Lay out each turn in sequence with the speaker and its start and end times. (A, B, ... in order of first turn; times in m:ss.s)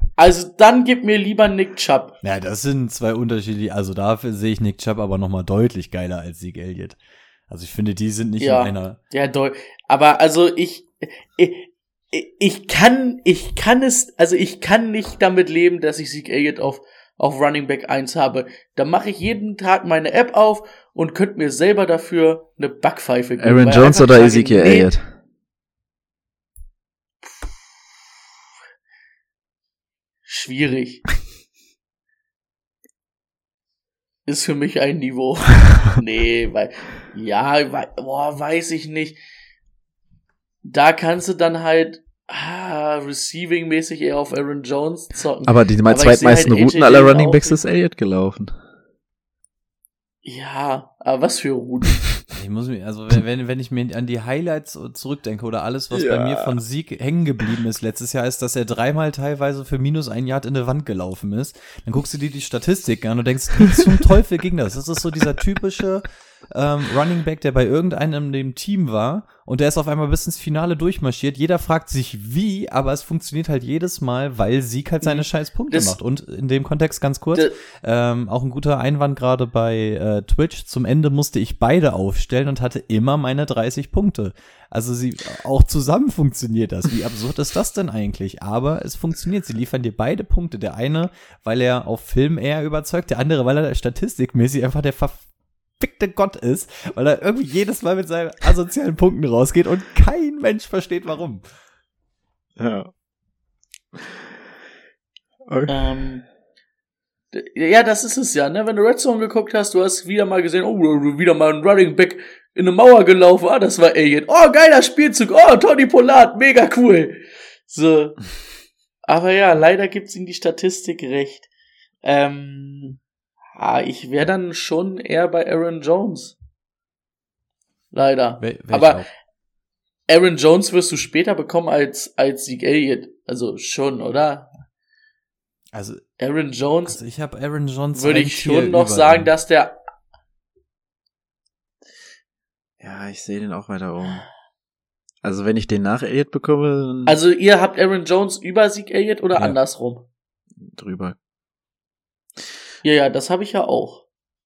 0:00.2-0:02.2 A
0:02.2-0:07.0 B
0:07.5-0:09.0 B
0:08.4-0:24.9 A
0:23.4-0:25.1 C
0:30.2-0:31.0 A
0:34.2-0:39.2 A
0:40.6-0:47.6 A
0:45.4-0:48.6 C
0:50.2-0:52.1 A
0:52.3-1:35.2 B
0:55.9-0:56.5 C
1:15.0-1:16.0 A
1:35.8-1:41.4 B
1:42.6-1:42.9 C
1:45.5-1:45.8 C
1:45.7-1:46.2 A
1:47.3-1:58.2 A
1:59.0-2:01.5 A
2:02.0-2:03.0 A
2:03.6-2:06.3 A
2:07.9-2:09.0 A
2:08.4-2:09.1 B
2:10.1-2:14.5 A
2:15.7-2:16.0 B
2:16.2-2:17.0 A
2:16.9-2:19.3 B
2:17.9-2:19.8 A
2:22.8-2:24.2 C
2:25.2-2:27.2 C
2:27.0-2:30.0 A
2:30.6-2:31.2 C
2:32.8-2:34.0 A